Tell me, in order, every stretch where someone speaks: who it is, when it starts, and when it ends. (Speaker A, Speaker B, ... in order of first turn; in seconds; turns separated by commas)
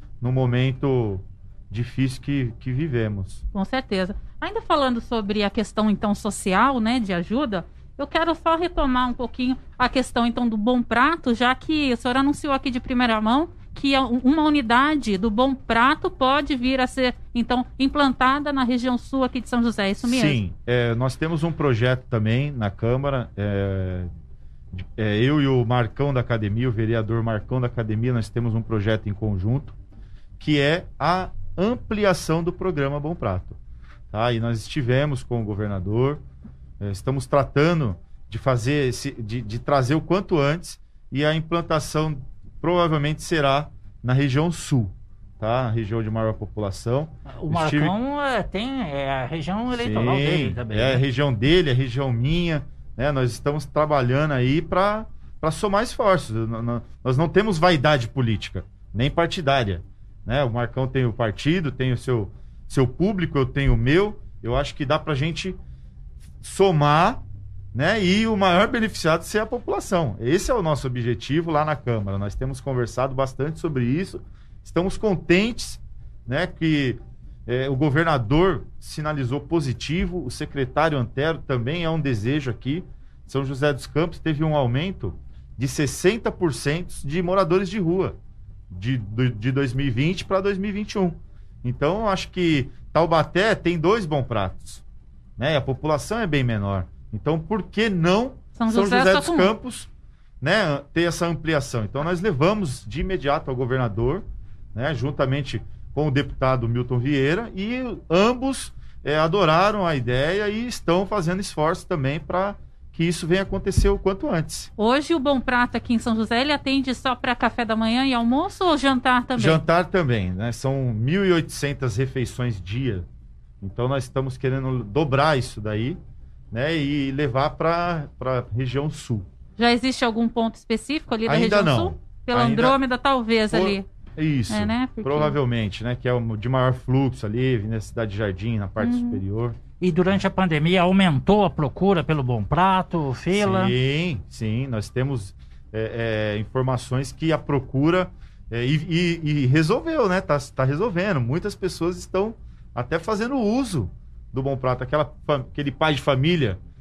Speaker A: 0.2-3.4, Speaker B: 3.5-20.4, Speaker A: 20.0-24.1, Speaker A: 24.7-29.7, Speaker A: 30.4-33.6, Speaker A: 34.1-36.2, Speaker A: 36.8-47.9, Speaker C: 47.4-51.0, Speaker A: 49.7-65.6, Speaker A: 66.4-67.2, Speaker A: 67.7-88.2, Speaker A: 88.7-94.8, Speaker A: 95.4-99.9, Speaker B: 98.6-99.5, Speaker A: 100.4-114.7, Speaker B: 114.8-119.6, Speaker A: 119.4-123.0, Speaker A: 123.6-126.0, Speaker A: 126.5-129.2, Speaker B: 129.6-133.8, Speaker A: 131.2-132.8, Speaker A: 133.5-139.6, Speaker B: 134.5-135.4, Speaker B: 138.8-139.2, Speaker C: 139.8-143.7, Speaker A: 143.3-156.6